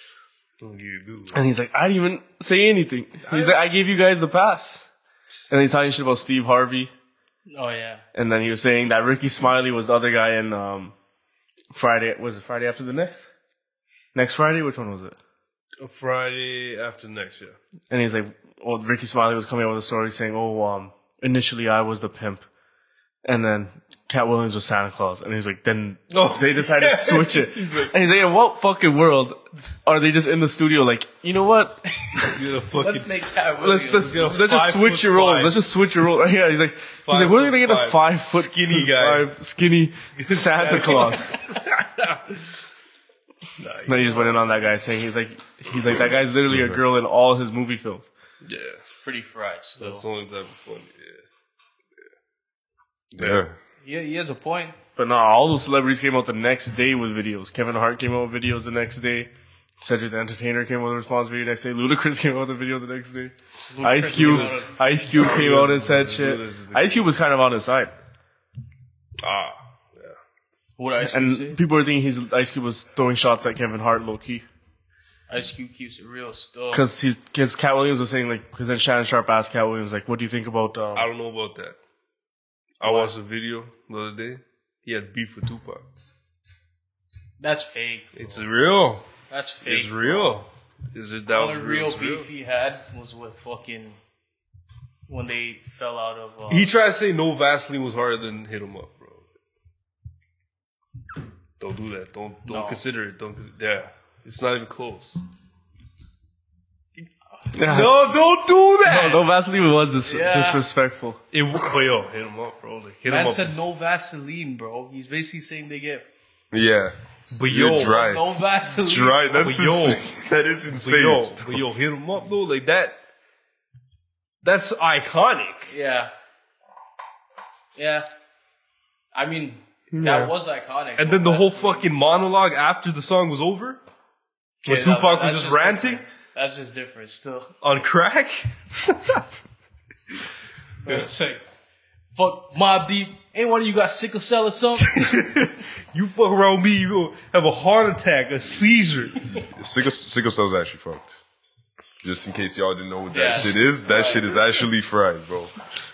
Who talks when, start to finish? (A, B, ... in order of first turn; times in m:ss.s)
0:00.6-0:01.4 A
0:01.3-0:04.8 B
0:03.2-0:03.6 A
0:05.5-0:06.9 B
0:07.5-0:08.0 C
0:08.1-0:10.9 B
0:11.7-0:13.3 B
0:14.1-0:15.2 B
0:15.8-0:17.6 A
0:17.9-0:22.4 B
0:23.2-0:31.8 B
0:26.1-0:27.9 A
0:32.0-0:34.3 C
0:32.2-0:35.6 A
0:33.8-0:41.4 B
0:37.0-0:39.3 A
0:40.2-0:42.4 A
0:43.6-0:44.4 A
0:43.8-0:48.1 B
0:46.5-0:46.8 D
0:48.4-0:48.8 A
0:49.0-0:50.0 C
0:49.8-0:51.2 A
0:53.1-0:53.6 D
0:53.2-0:53.4 A
0:53.8-0:54.8 C
0:55.0-1:07.9 B
1:03.7-1:05.1 C
1:03.9-1:07.0 A
1:09.2-1:10.2 A
1:10.8-1:11.6 C
1:11.0-1:14.4 B
1:15.3-1:16.9 C
1:16.7-1:21.1 B
1:20.9-1:21.8 A
1:22.8-1:25.8 A
1:22.8-1:23.1 C
1:27.4-1:28.5 C
1:28.1-1:29.1 A
1:29.3-1:30.4 C
1:29.6-1:32.3 A
1:31.3-1:34.0 C
1:35.1-1:36.7 C
1:36.5-1:39.2 A
1:41.6-1:45.2 A
1:42.4-1:42.8 C
1:47.5-1:48.1 B
1:47.6-1:49.3 A
1:48.8-1:51.2 B
1:50.0-1:50.6 C
1:51.3-1:53.6 A
1:53.1-1:56.1 C
1:56.5-1:58.3 D
1:57.3-1:58.0 A
1:57.8-1:59.5 C
1:58.8-2:01.6 D
1:59.3-2:00.0 A
2:00.7-2:03.0 A
2:04.4-2:05.7 A
2:05.7-2:06.1 C
2:07.8-2:08.1 C
2:09.1-2:11.9 C
2:09.9-2:10.3 D
2:11.0-2:13.8 A
2:14.6-2:17.5 C
2:14.6-2:16.0 A
2:17.6-2:19.2 A
2:20.8-2:21.4 C
2:22.1-2:25.3 C
2:24.9-2:29.2 A
2:29.4-2:31.2 D
2:32.0-2:35.5 D
2:33.1-2:34.4 C